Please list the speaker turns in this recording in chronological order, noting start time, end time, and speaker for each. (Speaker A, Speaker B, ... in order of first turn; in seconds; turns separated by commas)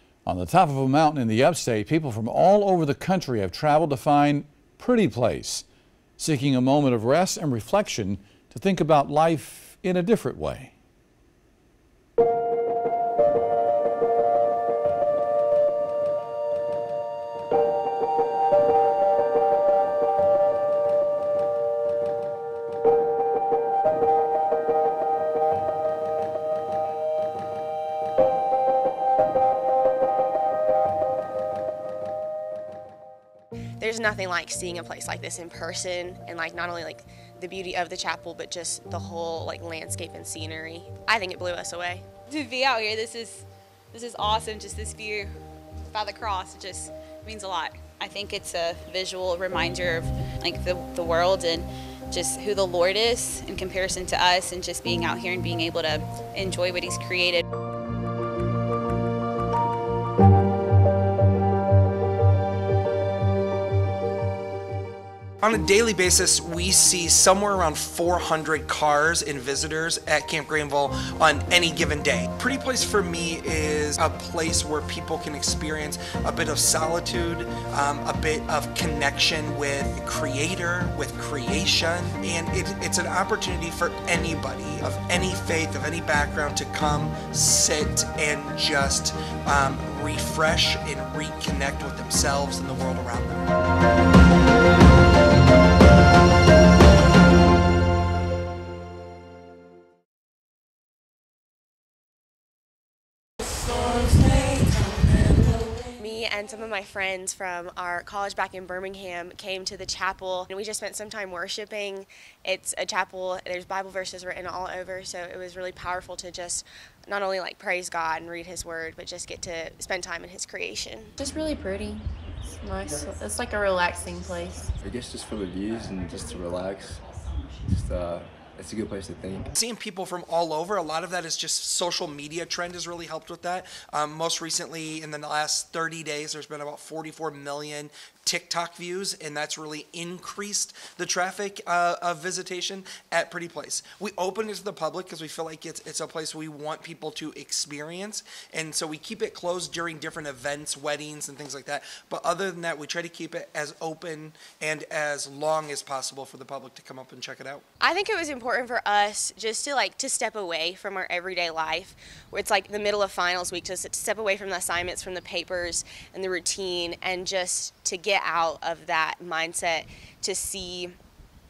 Speaker A: 0.2-5.6, Speaker A: 6.2-10.7, Speaker B: 33.8-42.0, Speaker C: 42.3-45.3, Speaker C: 45.9-57.4, Speaker D: 65.4-93.5, Speaker B: 106.0-121.1, Speaker E: 121.2-124.7, Speaker F: 124.8-127.0, Speaker F: 127.6-129.5, Speaker D: 129.6-157.6, Speaker B: 157.8-170.9